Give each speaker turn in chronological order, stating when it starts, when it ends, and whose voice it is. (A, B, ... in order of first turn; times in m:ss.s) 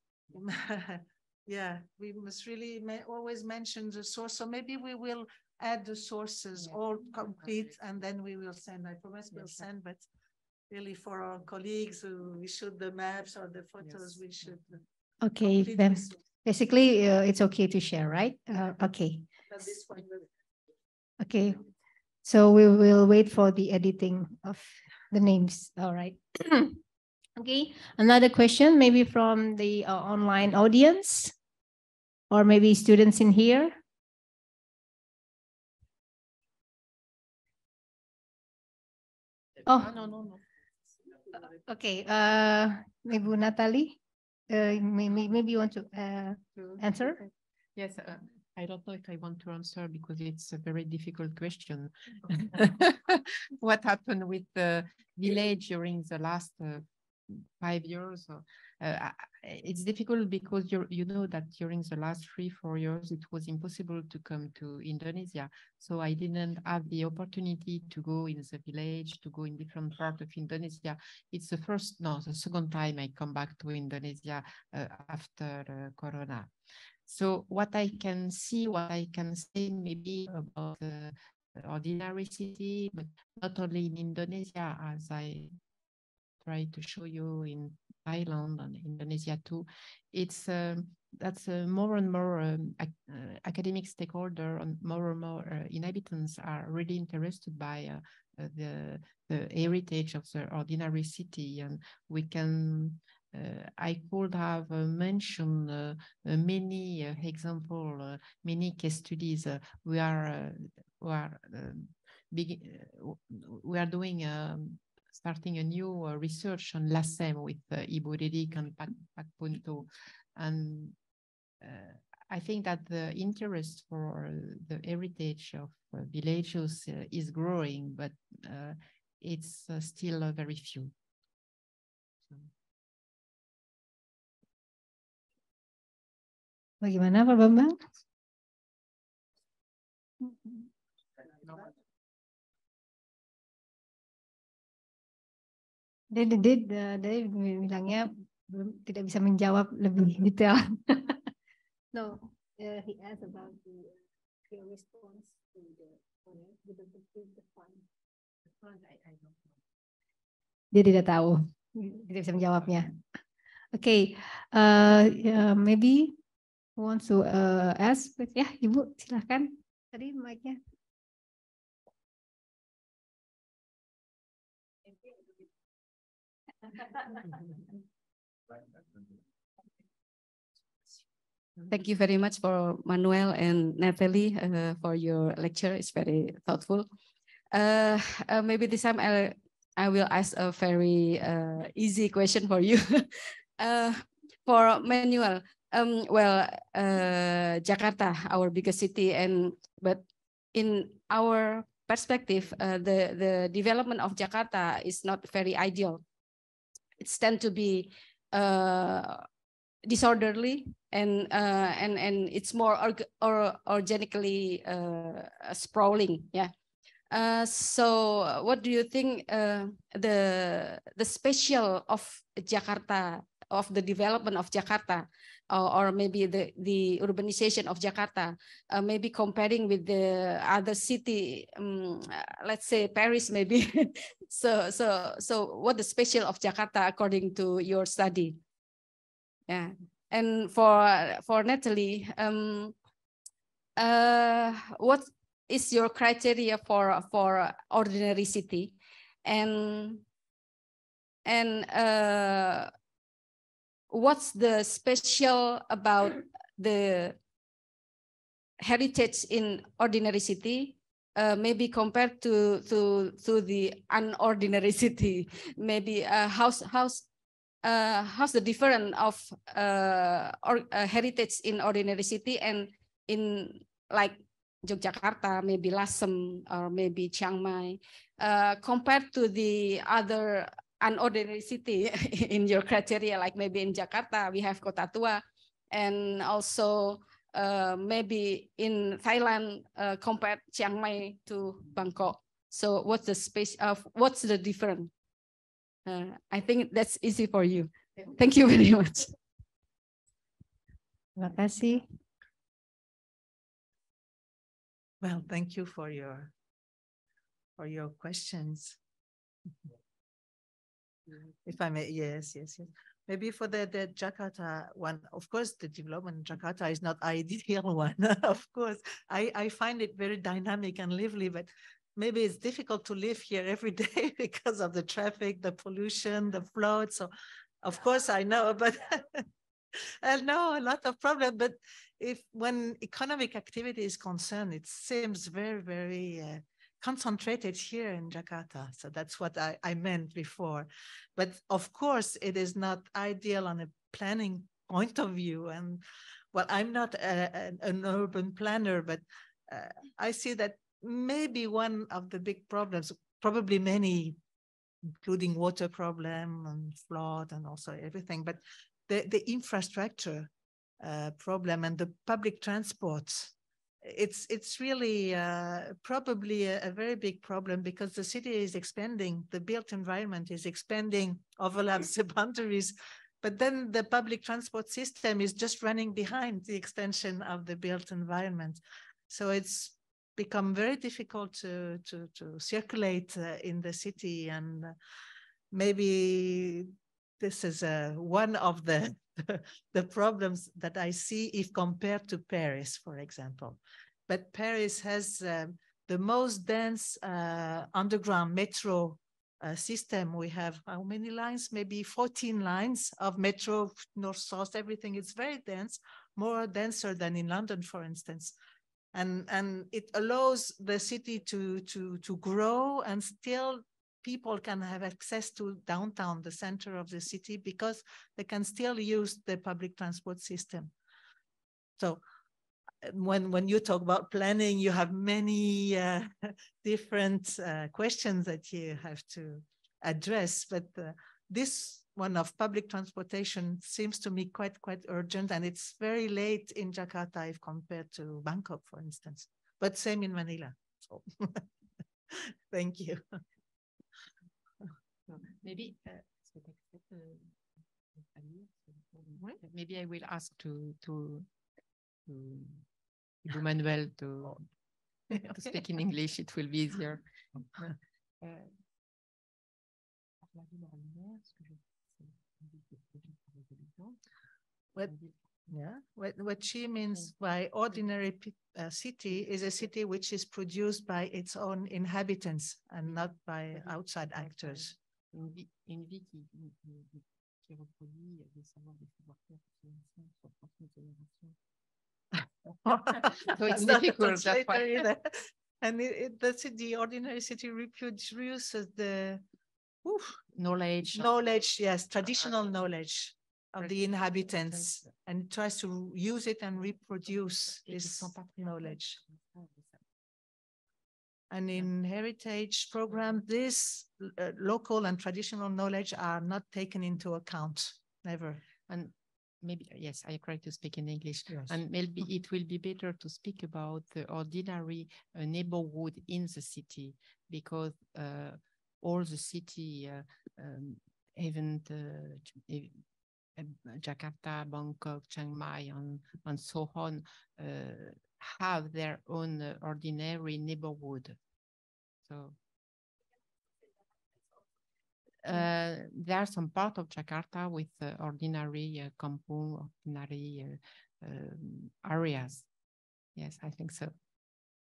0:00.3-0:10.1 A
0:10.7-0:14.8 A
0:15.2-0:19.3 B
0:15.4-0:16.2 A
0:19.5-0:20.2 A
0:21.2-0:21.6 B
0:22.2-0:26.8 B
0:27.4-0:31.3 B
0:32.3-0:33.8 B
0:39.7-0:40.4 C
0:41.5-0:44.0 B
0:44.5-0:47.2 B
0:46.6-1:16.5 C
1:17.1-1:25.5 C
1:26.4-2:01.0 C
2:01.6-2:10.9 C
2:16.8-2:17.8 B
2:20.2-2:20.7 B
2:26.1-2:31.2 B
2:31.9-2:33.9 B
2:34.5-2:37.8 B
2:38.6-2:39.3 B
2:40.7-2:42.9 B
2:43.7-2:46.2 B
2:46.8-2:50.6 B
3:01.7-3:06.9 D
3:07.5-3:13.0 D
3:13.6-3:20.0 D
3:20.5-3:26.0 D
3:27.0-3:29.2 D
3:29.8-3:36.5 D
3:37.1-3:58.4 D
3:59.5-4:02.7 D
4:03.8-4:10.0 D
4:11.2-4:12.7 D
4:13.9-4:17.2 D
4:18.6-4:27.0 D
4:27.6-4:54.9 D
4:55.8-4:59.1 D
5:01.2-5:01.8 B
5:05.0-5:06.3 A
5:07.6-5:08.8 A
5:11.4-5:27.1 A
5:27.6-5:29.2 A
5:30.0-5:45.8 A
5:46.3-5:54.2 A
5:55.0-6:00.3 A
6:00.8-6:03.3 A
6:03.8-6:24.7 A
6:25.5-6:48.4 A
6:48.9-7:00.7 A
7:02.8-7:21.4 A
7:22.1-7:23.0 A
7:25.1-7:27.3 C
7:28.0-7:31.3 C
7:32.1-7:32.6 C
7:33.2-7:34.4 C
7:35.1-7:37.0 C
7:38.2-7:38.5 C
7:40.2-7:44.0 C
7:44.8-7:45.1 C
7:45.5-7:54.7 A
7:53.5-8:01.3 C
8:02.7-8:04.8 C
8:02.7-8:05.1 A
8:05.6-8:09.2 A
8:09.8-8:10.1 A
8:10.3-8:11.1 C
8:10.9-8:19.0 A
8:14.2-8:14.9 C
8:17.6-8:19.8 C
8:21.3-8:28.4 A
8:28.7-8:42.8 C
8:31.3-8:31.6 A
8:43.4-8:51.2 C
8:52.0-8:52.4 C
8:55.2-9:02.5 C
9:03.2-9:03.9 C